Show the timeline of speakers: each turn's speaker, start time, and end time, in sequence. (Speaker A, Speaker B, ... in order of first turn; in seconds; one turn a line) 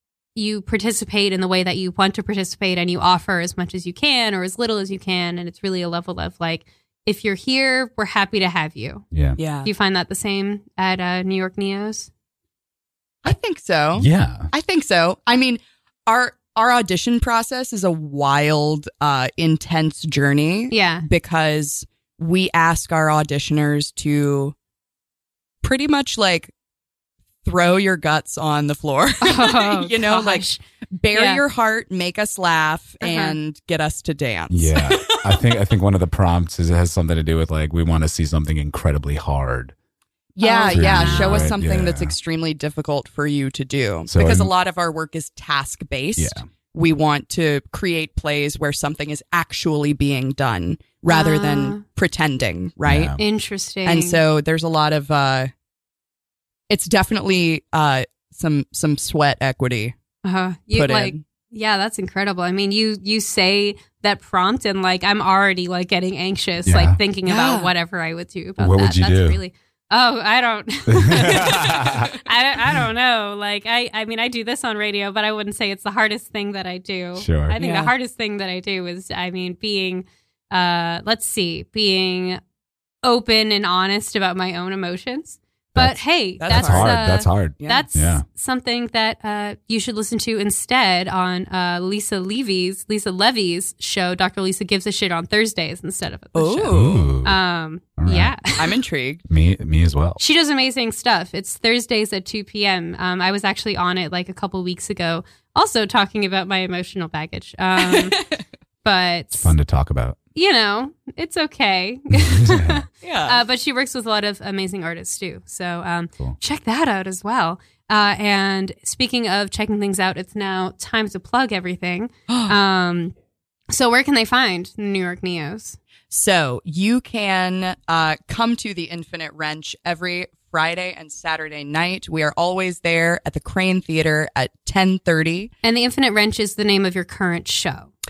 Speaker A: 0.3-9.1
Speaker B: 9.1-9.4
Speaker C: 9.4-9.7
Speaker A: 9.6-12.1
Speaker C: 13.2-24.5
Speaker B: 13.9-14.5
Speaker A: 20.7-21.1
Speaker C: 25.6-26.5
Speaker C: 27.4-35.4
Speaker A: 29.2-30.6
Speaker A: 31.1-31.4
Speaker A: 33.0-33.3
Speaker B: 34.5-39.7
Speaker C: 40.4-53.1
Speaker A: 40.4-41.5
Speaker B: 40.7-42.1
Speaker B: 44.1-44.5
Speaker B: 46.2-46.4
Speaker A: 51.1-51.8
Speaker B: 52.9-53.2
Speaker A: 53.2-54.2
Speaker C: 53.8-55.5
Speaker C: 56.7-60.0
Speaker A: 60.2-82.4
Speaker C: 60.7-61.2
Speaker B: 66.7-67.0
Speaker C: 67.2-67.7
Speaker B: 68.6-69.4
Speaker B: 70.9-72.1
Speaker B: 77.2-77.6
Speaker C: 77.5-77.9
Speaker A: 83.0-98.6
Speaker B: 85.7-88.2
Speaker C: 86.4-87.1
Speaker C: 87.6-87.8
Speaker C: 96.3-97.1
Speaker B: 96.7-97.4
Speaker B: 98.0-98.6
Speaker C: 98.6-99.2
Speaker B: 99.3-100.2
Speaker A: 100.2-108.2
Speaker C: 107.8-108.4
Speaker A: 108.8-109.5
Speaker B: 109.4-110.2
Speaker A: 110.3-123.1
Speaker B: 112.1-112.8
Speaker C: 113.0-113.4
Speaker C: 122.3-122.5
Speaker A: 123.7-125.8
Speaker C: 126.1-135.5
Speaker A: 135.6-137.9